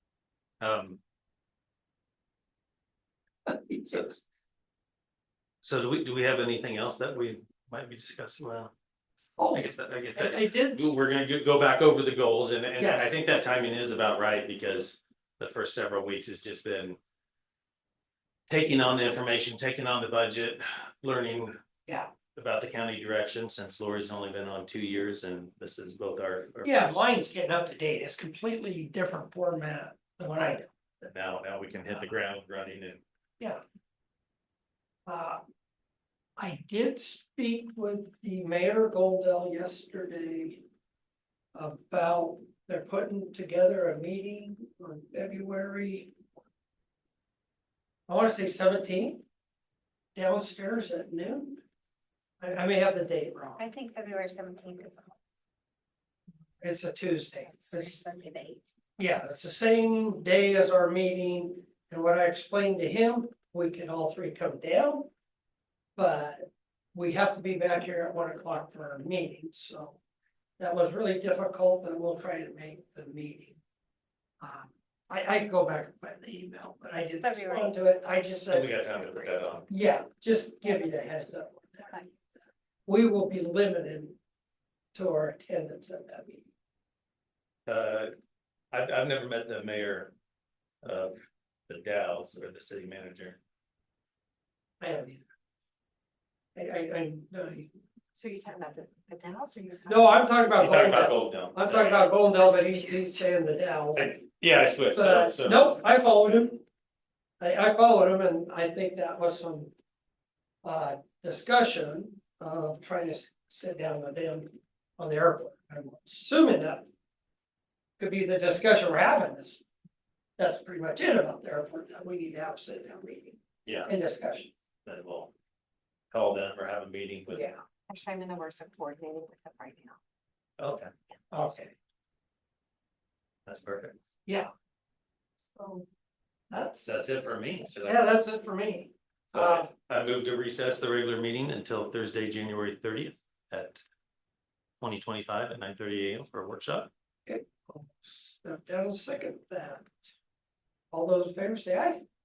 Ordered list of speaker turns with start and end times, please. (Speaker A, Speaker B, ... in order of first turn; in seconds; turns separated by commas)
Speaker A: 0.6-1.0, Speaker B: 3.5-4.1, Speaker A: 3.9-4.2, Speaker A: 5.6-8.7, Speaker B: 9.4-10.9, Speaker A: 9.5-17.0, Speaker B: 12.8-13.1, Speaker A: 18.5-21.6, Speaker A: 22.3-27.0, Speaker B: 26.6-31.0, Speaker A: 31.0-33.0, Speaker B: 35.0-35.4, Speaker B: 36.4-40.6, Speaker B: 41.5-46.2, Speaker B: 48.1-49.2, Speaker B: 50.1-51.6, Speaker B: 52.4-53.6, Speaker C: 53.6-55.1, Speaker B: 56.6-58.0, Speaker C: 57.5-58.7, Speaker B: 59.0-65.1, Speaker B: 66.0-70.0, Speaker B: 70.6-73.6, Speaker B: 74.4-79.1, Speaker C: 77.0-77.9, Speaker A: 78.5-79.7, Speaker B: 79.7-82.0, Speaker C: 80.6-82.1, Speaker B: 82.8-84.2, Speaker B: 84.9-86.5, Speaker A: 87.7-88.1, Speaker A: 88.7-90.1, Speaker A: 90.8-91.1, Speaker A: 91.7-93.4, Speaker B: 94.8-95.2, Speaker B: 96.5-97.7, Speaker C: 98.1-100.3, Speaker B: 99.8-104.2, Speaker A: 100.6-102.2, Speaker C: 102.2-103.2, Speaker A: 104.0-105.8, Speaker B: 104.9-106.6, Speaker B: 107.4-109.7, Speaker B: 110.6-116.9, Speaker B: 118.0-119.6, Speaker B: 120.4-124.5, Speaker A: 123.6-123.9, Speaker A: 124.8-125.3, Speaker A: 126.1-127.4, Speaker B: 127.3-127.6, Speaker C: 127.9-130.0, Speaker A: 130.6-130.9, Speaker B: 131.3-131.7, Speaker A: 133.4-133.9, Speaker B: 134.2-134.5, Speaker B: 135.6-135.8, Speaker B: 136.5-137.0, Speaker A: 136.8-138.1, Speaker B: 137.8-139.7, Speaker A: 139.3-143.8, Speaker A: 144.8-146.9, Speaker B: 147.2-150.0, Speaker B: 150.9-152.0